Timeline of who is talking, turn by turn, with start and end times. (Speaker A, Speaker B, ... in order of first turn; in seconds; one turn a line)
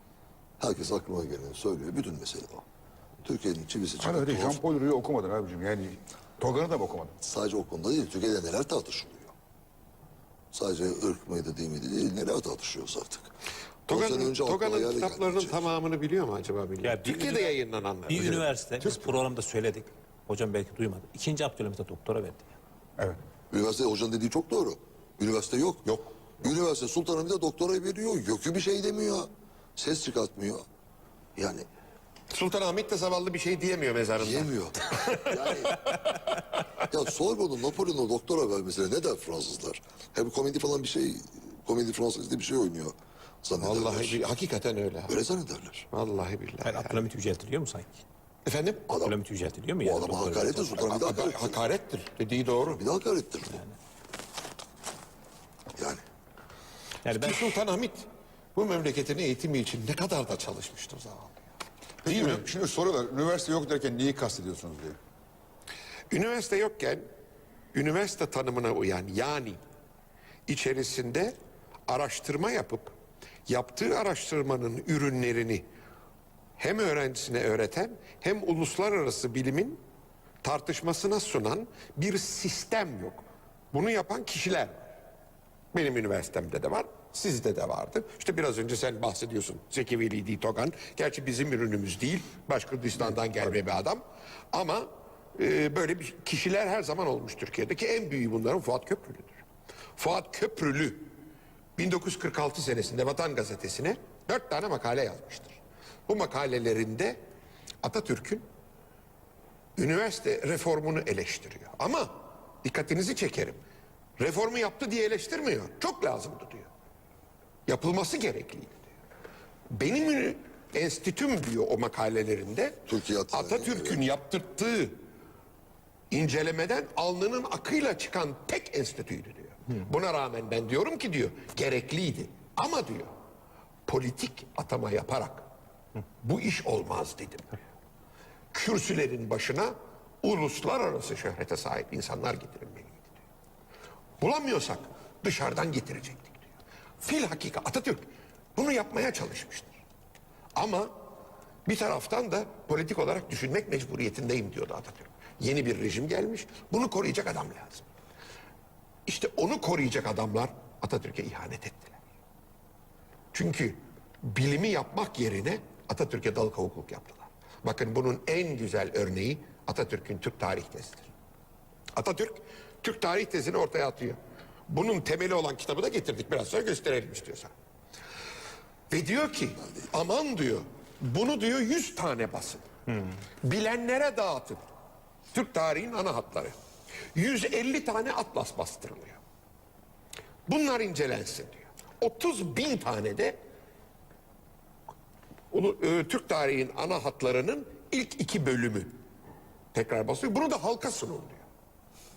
Speaker A: 0.6-2.6
Speaker A: 3.2-4.6
Speaker B: 4.0-7.1
Speaker A: 7.2-9.3
Speaker A: 10.5-13.3
Speaker C: 13.9-19.1
Speaker A: 13.9-15.7
Speaker D: 16.8-22.6
Speaker A: 23.5-30.6
Speaker A: 31.4-31.7
Speaker C: 32.3-36.4
Speaker A: 34.2-35.9
Speaker A: 36.9-44.2
Speaker C: 43.6-45.2
Speaker A: 45.1-45.9
Speaker C: 45.9-47.0
Speaker D: 46.6-48.0
Speaker C: 48.5-49.0
Speaker A: 48.9-49.2
Speaker D: 49.0-50.9
Speaker A: 49.8-51.6
Speaker C: 50.8-52.8
Speaker A: 52.7-53.6
Speaker D: 57.0-57.6
Speaker C: 57.1-61.3
Speaker B: 62.0-65.0
Speaker C: 62.0-62.5
Speaker C: 66.1-67.0
Speaker C: 67.7-69.6
Speaker C: 70.5-71.4
Speaker C: 71.9-72.9
Speaker C: 73.5-75.7
Speaker C: 76.6-79.8
Speaker C: 80.4-84.9
Speaker C: 85.7-99.4
Speaker C: 100.0-101.1
Speaker C: 101.8-107.2
Speaker C: 107.8-108.4
Speaker C: 109.8-113.6
Speaker C: 114.2-116.7
Speaker C: 117.7-118.8
Speaker C: 119.7-125.0
Speaker A: 122.9-124.0
Speaker C: 126.1-133.1
Speaker C: 133.9-135.5
Speaker C: 136.2-137.6
Speaker C: 138.5-143.1
Speaker C: 144.2-146.4
Speaker C: 147.0-149.7
Speaker C: 150.6-150.9
Speaker C: 151.7-157.9
Speaker C: 159.1-162.0
Speaker C: 163.3-171.1
Speaker C: 171.9-174.2
Speaker C: 174.7-177.5
Speaker C: 178.9-182.7
Speaker C: 183.4-184.6
Speaker C: 185.3-186.5
Speaker C: 187.2-189.2
Speaker C: 190.5-193.4
Speaker C: 195.5-199.0
Speaker C: 199.7-201.4